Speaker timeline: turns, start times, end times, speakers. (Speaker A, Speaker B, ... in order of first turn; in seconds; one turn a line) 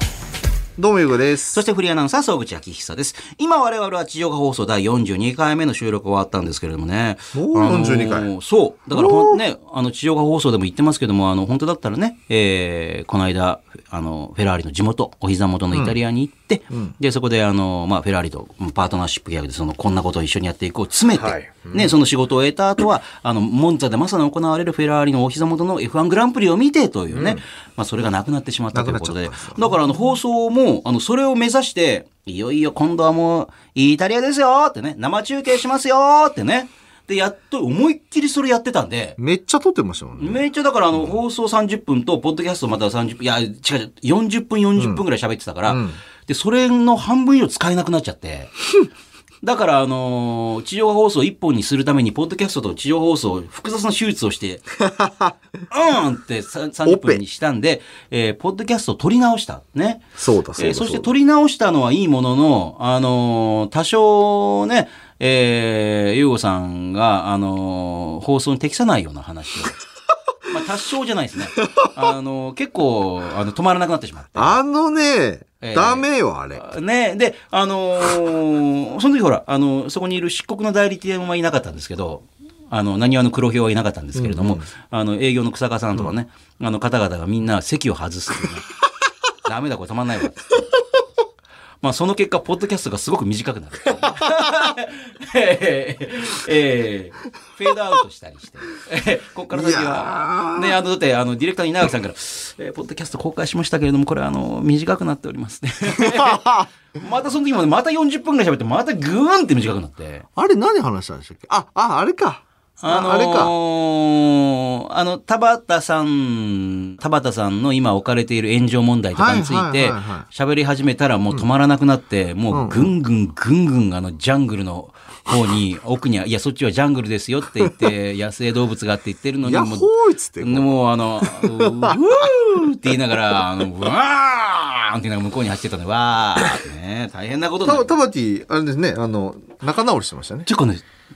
Speaker A: 0.8-1.6
Speaker B: 1.5-39.2
Speaker A: 7.3-8.3
Speaker A: 8.9-9.4
Speaker A: 15.7-16.0
Speaker A: 21.1-21.9
Speaker A: 27.1-27.4
Speaker A: 28.7-29.8
Speaker A: 39.2-40.4
Speaker B: 40.2-48.6
Speaker A: 44.8-45.0
Speaker A: 45.7-46.0
Speaker B: 49.4-54.7
Speaker A: 54.8-55.4
Speaker B: 55.7-60.0
Speaker A: 56.9-57.2
Speaker A: 60.2-61.1
Speaker B: 60.6-69.8
Speaker B: 70.5-74.6
Speaker A: 74.3-76.7
Speaker B: 75.6-88.7
Speaker A: 84.2-84.7
Speaker B: 89.5-90.4
Speaker B: 91.8-110.3
Speaker A: 99.5-100.8
Speaker A: 105.9-106.7
Speaker A: 110.3-113.5
Speaker B: 112.8-138.0
Speaker A: 119.2-120.3
Speaker A: 122.5-122.9
Speaker A: 129.4-130.7
Speaker A: 131.2-133.4
Speaker A: 137.6-140.5
Speaker B: 140.5-140.8